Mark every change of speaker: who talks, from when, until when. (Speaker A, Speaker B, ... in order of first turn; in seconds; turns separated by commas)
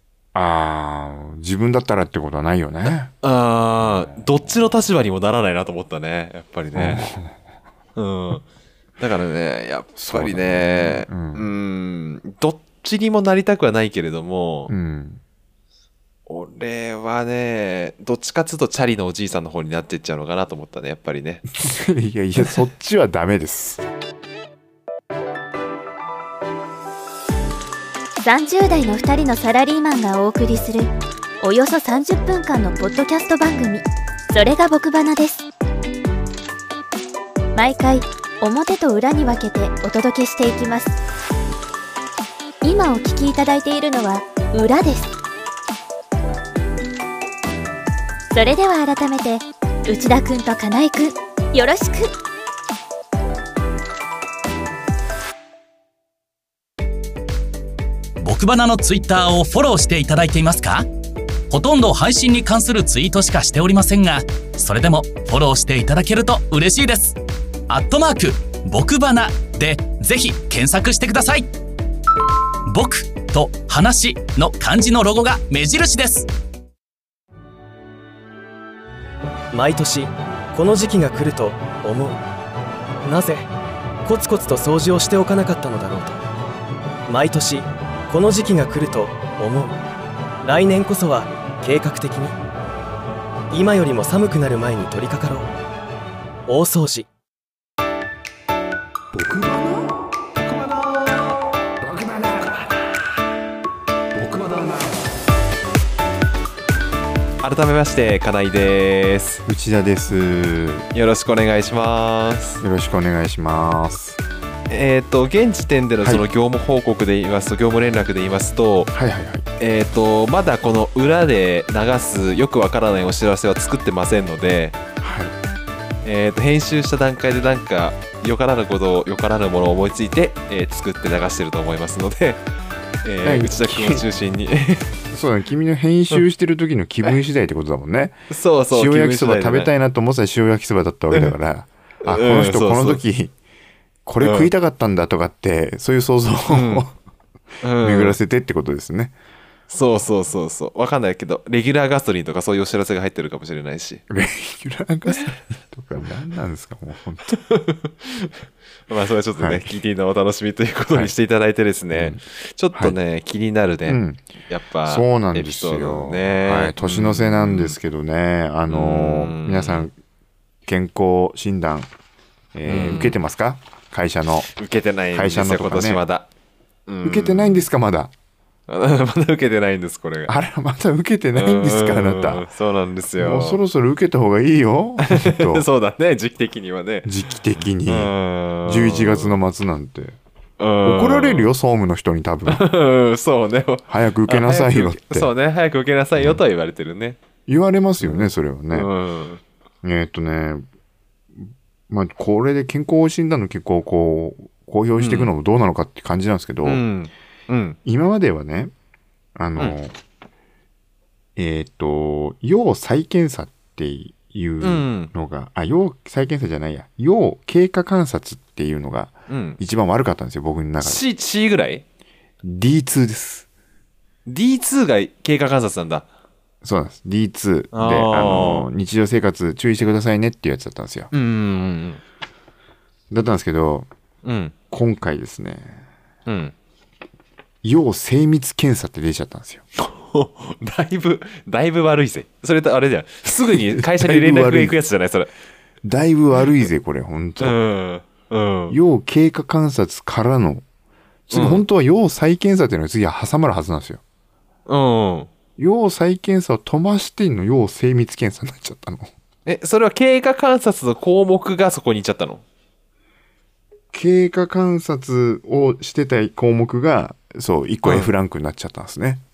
Speaker A: 0.3-3.1, Speaker B: 3.2-7.1, Speaker A: 3.8-4.2, Speaker A: 6.8-7.3, Speaker B: 8.0-8.4, Speaker B: 9.0-14.7, Speaker A: 10.0-11.5, Speaker A: 14.7-15.2, Speaker B: 16.3-21.4, Speaker A: 21.6-23.8, Speaker C: 28.2-35.5, Speaker C: 37.5-41.0, Speaker C: 42.6-45.1, Speaker C: 48.3-52.1, Speaker D: 58.2-60.9, Speaker D: 61.5-67.2, Speaker D: 67.7-71.5, Speaker D: 72.7-76.3, Speaker E: 79.5-82.2, Speaker E: 83.0-83.5, Speaker E: 84.0-86.2, Speaker E: 87.1-89.8, Speaker E: 90.4-92.3, Speaker E: 93.5-95.5, Speaker E: 96.5-97.1, Speaker A: 99.1-100.0, Speaker A: 101.8-102.6, Speaker A: 104.1-105.0, Speaker B: 107.4-109.4, Speaker A: 109.5-110.9, Speaker B: 110.9-112.6, Speaker A: 112.6-114.2, Speaker B: 114.7-118.9, Speaker A: 118.9-119.5, Speaker B: 119.6-124.8, Speaker A: 125.0-125.3, Speaker B: 126.0-132.4, Speaker B: 133.0-134.9, Speaker A: 133.2-134.1, Speaker A: 135.1-138.2, Speaker B: 138.3-139.7, Speaker A: 138.7-143.3, Speaker B: 142.1-143.0, Speaker A: 144.1-146.9, Speaker B: 144.2-144.5, Speaker B: 146.5-146.8, Speaker B: 147.6-148.2, Speaker A: 147.8-149.1, Speaker B: 149.7-154.0, Speaker A: 154.1-157.3, Speaker B: 157.3-158.3, Speaker B: 158.9-167.8, Speaker A: 159.4-159.7, Speaker A: 161.9-162.2, Speaker A: 163.8-164.3, Speaker A: 164.8-169.9, Speaker B: 168.7-169.9, Speaker A: 170.6-171.9, Speaker A: 172.5-174.5, Speaker B: 172.7-173.2, Speaker B: 174.5-176.3, Speaker A: 175.1-176.0, Speaker B: 176.9-177.6, Speaker A: 177.0-178.1, Speaker B: 178.7-180.3, Speaker A: 180.3-182.4, Speaker B: 181.3-183.6, Speaker A: 183.2-185.7, Speaker B: 185.0-187.1, Speaker A: 187.0-188.1, Speaker B: 187.8-189.3, Speaker A: 188.7-190.2, Speaker B: 190.6-191.5, Speaker A: 190.8-192.7, Speaker B: 192.4-197.2, Speaker A: 193.9-195.3, Speaker A: 197.5-198.9, Speaker B: 198.0-199.4, Speaker A: 199.8-200.6, Speaker A: 201.4-206.8, Speaker B: 205.0-205.3, Speaker B: 206.6-207.8, Speaker A: 207.8-208.7, Speaker A: 209.4-209.9, Speaker A: 211.3-221.0, Speaker B: 214.6-215.1, Speaker B: 219.3-219.6, Speaker B: 220.8-221.8, Speaker A: 222.4-223.4, Speaker B: 224.2-226.0, Speaker A: 226.6-231.1, Speaker B: 227.7-228.7, Speaker B: 231.1-232.0, Speaker A: 233.1-233.9, Speaker B: 234.2-234.5, Speaker A: 234.7-235.8, Speaker B: 236.3-236.5, Speaker A: 237.6-239.6, Speaker B: 239.8-245.3, Speaker A: 243.5-244.7, Speaker A: 245.8-247.6, Speaker B: 247.4-248.8, Speaker A: 248.7-250.6, Speaker A: 251.3-254.0, Speaker B: 251.3-251.6, Speaker B: 254.7-255.3, Speaker A: 255.6-259.1, Speaker B: 259.4-262.4, Speaker A: 263.9-269.2, Speaker B: 267.8-268.1